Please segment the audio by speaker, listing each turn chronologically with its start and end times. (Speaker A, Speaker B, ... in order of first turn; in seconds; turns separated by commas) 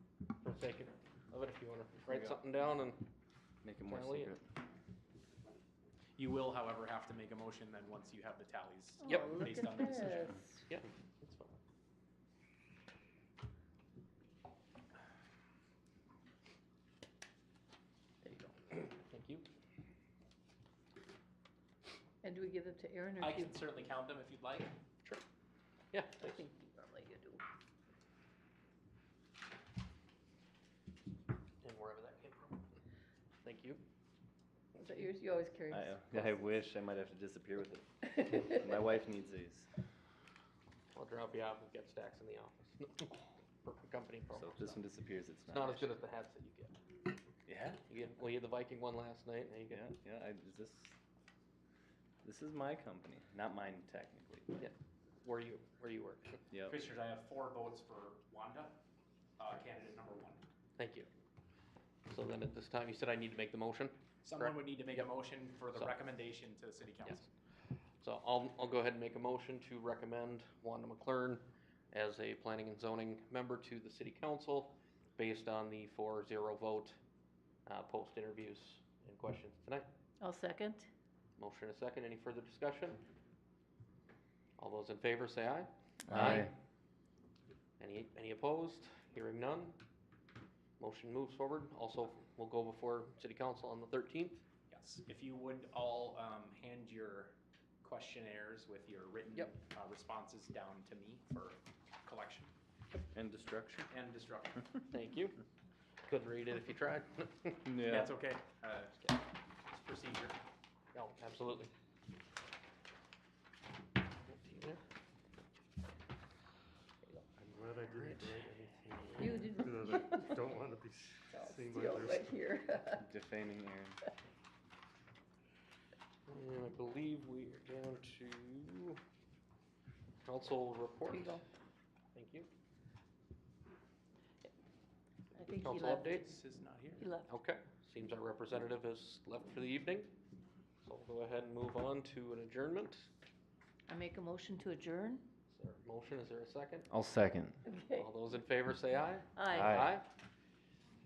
Speaker A: 0.4-3.1, Speaker B: 2.1-2.4, Speaker B: 3.6-4.4, Speaker A: 3.8-4.3, Speaker C: 6.2-10.4, Speaker D: 9.0-10.6, Speaker A: 9.0-9.4, Speaker A: 10.7-11.6, Speaker D: 18.2-18.6, Speaker A: 18.7-19.5, Speaker D: 22.2-23.7, Speaker C: 23.2-24.7, Speaker A: 25.9-26.5, Speaker D: 26.2-27.4, Speaker A: 31.6-32.7, Speaker A: 33.4-33.8, Speaker D: 34.8-36.4, Speaker B: 35.7-39.7, Speaker A: 40.9-44.8, Speaker B: 44.3-45.9, Speaker A: 45.5-46.8, Speaker B: 47.5-47.8, Speaker A: 47.9-49.9, Speaker B: 49.7-51.0, Speaker B: 52.2-54.6, Speaker A: 54.6-56.4, Speaker B: 56.5-56.8, Speaker C: 56.7-58.8, Speaker C: 59.4-60.4, Speaker A: 60.8-61.1, Speaker A: 62.1-64.5, Speaker C: 64.2-67.3, Speaker A: 68.0-77.0, Speaker A: 77.7-79.9, Speaker D: 80.2-80.9, Speaker A: 81.4-83.0, Speaker A: 84.6-86.5, Speaker B: 86.1-86.5, Speaker A: 87.8-89.8, Speaker A: 90.8-94.4, Speaker C: 94.7-102.5, Speaker B: 103.1-103.9, Speaker C: 103.9-104.7, Speaker A: 104.9-105.4, Speaker A: 106.0-107.7, Speaker B: 107.6-108.1, Speaker C: 107.8-109.1, Speaker C: 109.7-110.4, Speaker A: 110.9-111.7, Speaker A: 114.2-114.8, Speaker E: 117.3-122.4, Speaker A: 118.0-119.3, Speaker D: 119.1-120.5, Speaker D: 121.3-123.0, Speaker B: 122.9-124.0, Speaker A: 126.3-129.0, Speaker A: 130.2-131.4, Speaker A: 132.1-132.5, Speaker D: 135.3-136.2, Speaker A: 135.6-136.3, Speaker C: 136.1-137.1, Speaker D: 137.0-137.3, Speaker A: 137.2-140.1, Speaker A: 140.8-143.1, Speaker D: 143.9-145.2, Speaker A: 145.5-146.9, Speaker B: 146.9-147.6, Speaker D: 147.7-148.0, Speaker A: 147.9-150.1, Speaker D: 149.3-149.9, Speaker B: 149.5-149.9